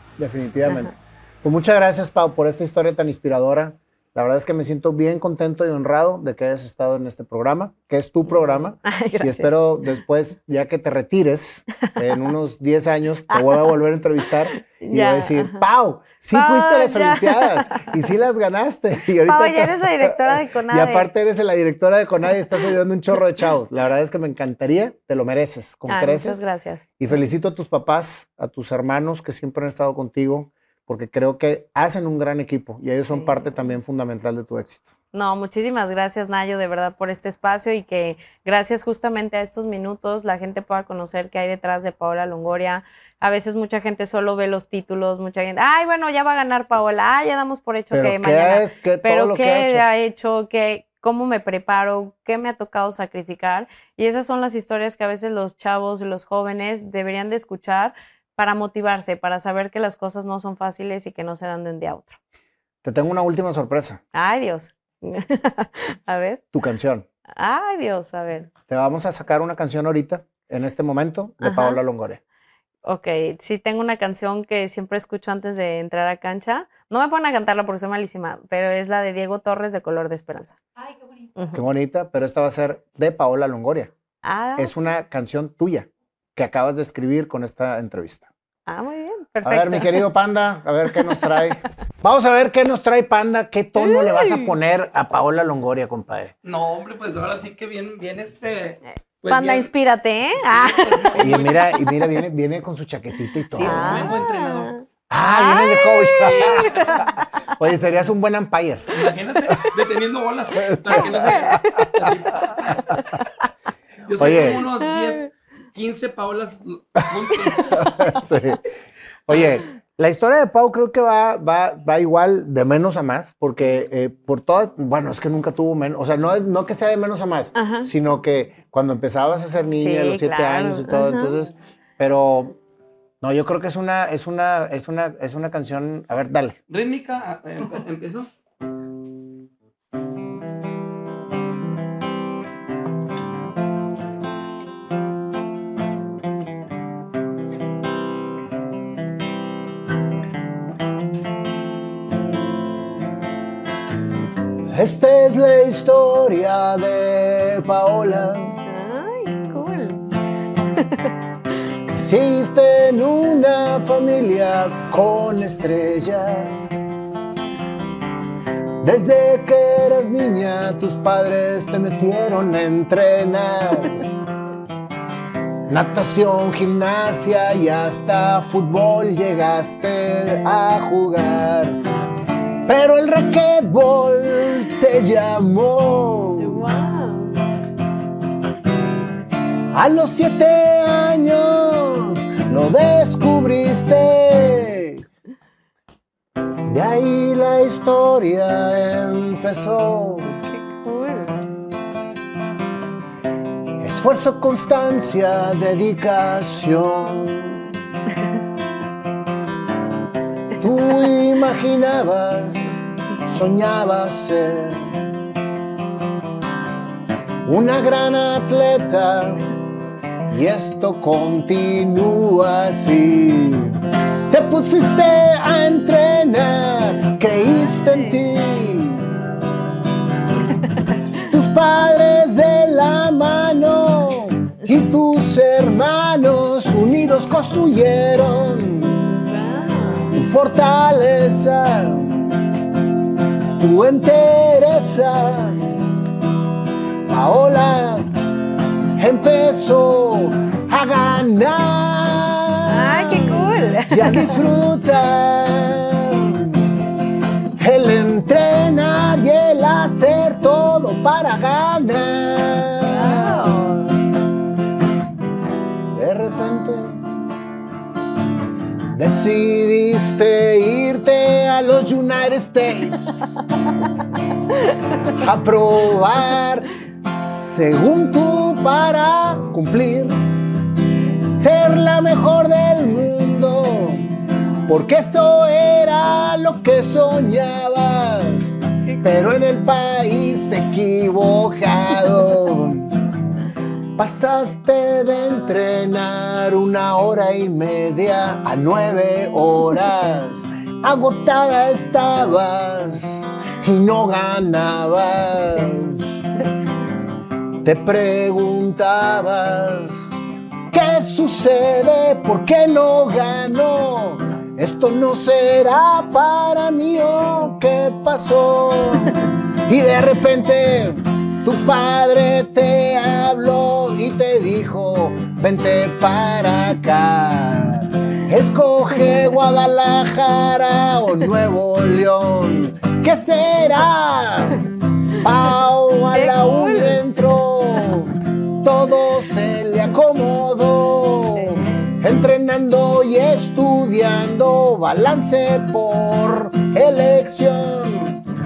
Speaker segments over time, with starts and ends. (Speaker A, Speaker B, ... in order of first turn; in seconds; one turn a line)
Speaker A: 0.2-26.4
Speaker B: 0.7-0.9
Speaker B: 8.3-9.5
Speaker B: 13.3-13.7
Speaker B: 14.5-15.6
Speaker B: 16.3-17.9
Speaker B: 19.2-21.1
Speaker B: 25.9-26.9
Speaker A: 27.0-34.9
Speaker B: 33.1-33.8
Speaker B: 35.1-62.2
Speaker A: 47.9-49.8
Speaker A: 62.8-64.0
Speaker B: 64.1-66.4
Speaker A: 66.5-67.0
Speaker B: 67.3-68.5
Speaker A: 68.7-72.2
Speaker B: 71.4-71.8
Speaker B: 72.8-80.6
Speaker B: 81.3-81.6
Speaker A: 81.5-83.9
Speaker B: 84.2-84.8
Speaker A: 84.5-88.3
Speaker B: 88.7-90.0
Speaker A: 89.4-96.3
Speaker B: 93.8-94.5
Speaker C: 96.4-99.7
Speaker B: 99.2-101.3
Speaker C: 100.3-101.8
Speaker A: 101.2-104.2
Speaker C: 103.5-104.7
Speaker B: 103.5-107.1
Speaker A: 105.1-106.9
Speaker C: 106.2-107.1
Speaker A: 107.6-109.0
Speaker C: 108.9-113.0
Speaker A: 110.6-113.0
Speaker B: 111.4-112.1
Speaker C: 114.0-118.1
Speaker A: 114.2-114.7
Speaker B: 114.8-115.3
Speaker A: 117.3-118.6
Speaker A: 119.3-132.6
Speaker B: 127.5-127.9
Speaker B: 129.8-131.3
Speaker A: 133.2-136.6
Speaker C: 136.7-138.3
Speaker A: 154.7-158.5
Speaker B: 158.7-160.0
Speaker B: 160.7-161.1
Speaker A: 161.9-166.6
Speaker A: 168.8-174.1
Speaker A: 175.7-181.8
Speaker A: 182.7-186.7
Speaker B: 186.4-187.3
Speaker A: 189.7-195.1
Speaker A: 196.7-200.3
Speaker B: 200.3-201.4
Speaker A: 203.8-207.6
Speaker A: 210.6-215.0
Speaker A: 217.4-219.4
Speaker A: 220.3-229.2
Speaker B: 227.5-228.1
Speaker B: 230.6-231.2
Speaker A: 231.2-239.1
Speaker B: 239.1-240.1
Speaker A: 240.1-242.6
Speaker A: 243.6-245.8
Speaker A: 247.1-248.1
Speaker A: 249.0-256.8
Speaker B: 252.7-254.4
Speaker A: 257.6-263.5
Speaker B: 262.8-264.0
Speaker A: 265.9-267.0
Speaker A: 268.9-273.4
Speaker A: 275.0-280.2
Speaker A: 281.4-284.1
Speaker A: 284.7-293.1
Speaker A: 294.0-306.2
Speaker A: 307.6-310.1
Speaker A: 310.7-334.6
Speaker A: 335.1-348.2
Speaker B: 336.1-337.0